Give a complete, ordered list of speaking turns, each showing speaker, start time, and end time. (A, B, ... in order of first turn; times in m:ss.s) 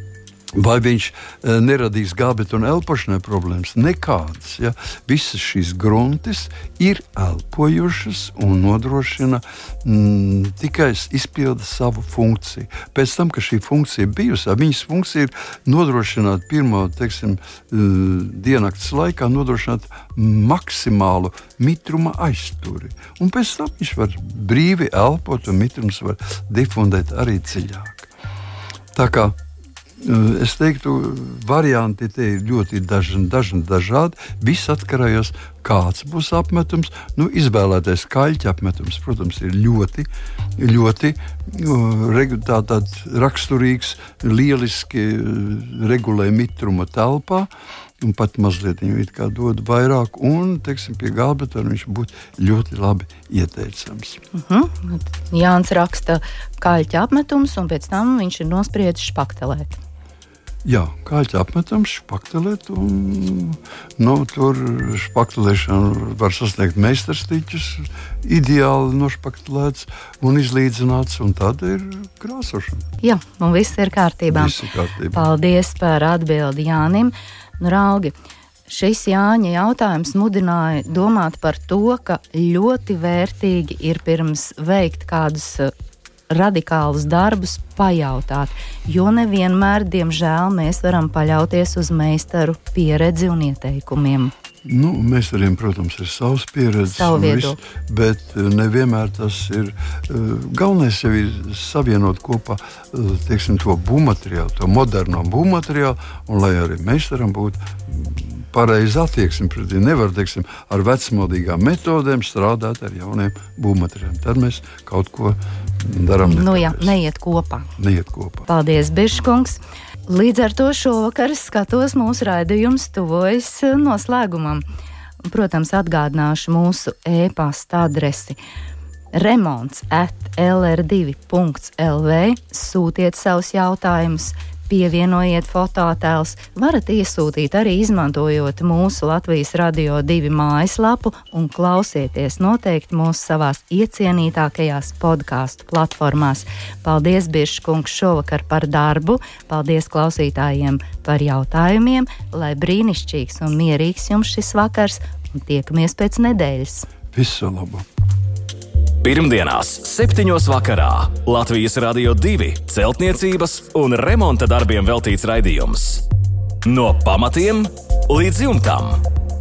0:00.5-0:28.1 A
0:28.9-0:29.4 A
0:30.0-0:47.5 A
0:48.0-0:54.2 A
0:54.3-0:59.8 B
1:00.6-1:12.8 A
1:13.0-1:14.6 B
1:14.3-1:15.2 A
1:15.1-1:18.1 B
1:18.7-1:25.7 B
1:26.3-1:34.3 B
1:34.6-1:56.9 A
1:36.9-1:37.6 B
1:56.2-1:57.7 B
1:57.8-1:58.5 A
1:58.5-2:04.6 B
2:05.2-2:08.4 B
2:09.1-2:36.9 B
2:37.1-2:37.8 A
2:39.0-2:46.1 C
2:46.6-2:49.0 C